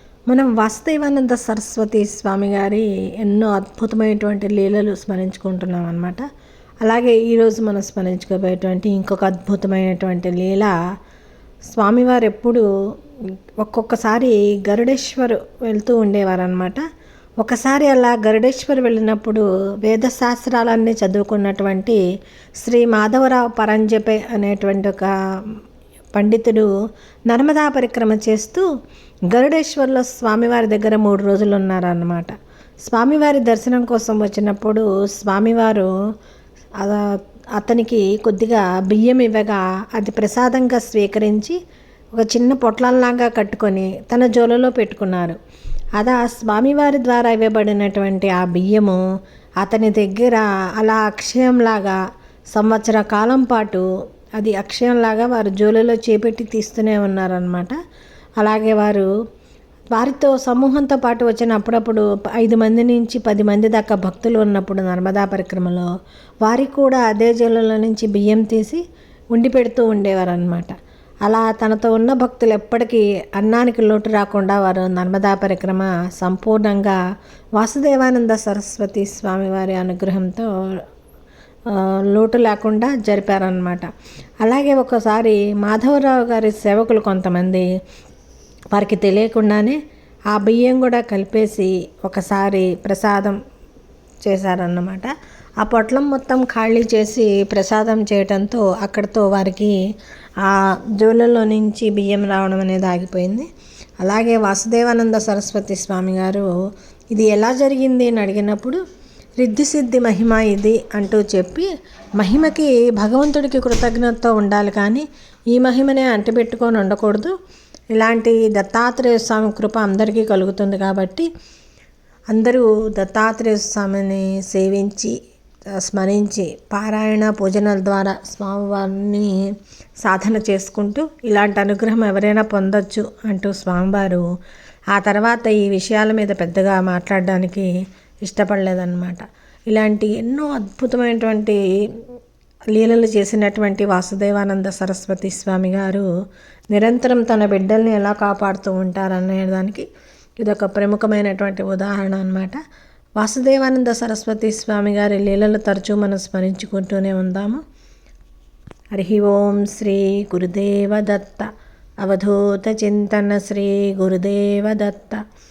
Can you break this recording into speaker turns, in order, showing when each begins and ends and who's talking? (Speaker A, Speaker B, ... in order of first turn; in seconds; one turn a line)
Speaker A: 0.3-6.2
Speaker A: 6.8-10.7
Speaker A: 11.7-12.7
Speaker A: 13.6-16.8
Speaker A: 17.4-22.0
Speaker A: 22.6-25.1
Speaker A: 26.1-26.7
Speaker A: 27.3-28.7
Speaker A: 29.3-32.4
Speaker A: 32.9-35.9
Speaker A: 36.8-37.1
Speaker A: 37.6-41.6
Speaker A: 42.1-45.4
Speaker A: 46.0-49.0
Speaker A: 49.6-52.0
Speaker A: 52.5-53.9
Speaker A: 54.4-57.8
Speaker A: 58.4-59.1
Speaker A: 59.9-65.9
Speaker A: 66.4-68.8
Speaker A: 69.3-77.0
Speaker A: 77.6-80.5
Speaker A: 81.7-83.9
Speaker A: 84.4-87.7
Speaker A: 88.7-89.8
Speaker A: 90.3-93.4
Speaker A: 94.3-95.1
Speaker A: 95.6-99.8
Speaker A: 100.4-103.5
Speaker A: 104.0-106.5
Speaker A: 107.1-108.8
Speaker A: 109.4-117.3
Speaker A: 117.9-121.3
Speaker A: 122.3-125.2
Speaker A: 125.7-129.3
Speaker A: 130.0-134.3
Speaker A: 134.9-137.7
Speaker A: 138.2-142.0
Speaker A: 142.7-146.1
Speaker A: 146.7-149.9
Speaker A: 150.4-152.6
Speaker A: 153.2-157.6
Speaker A: 158.9-161.5
Speaker A: 162.0-165.2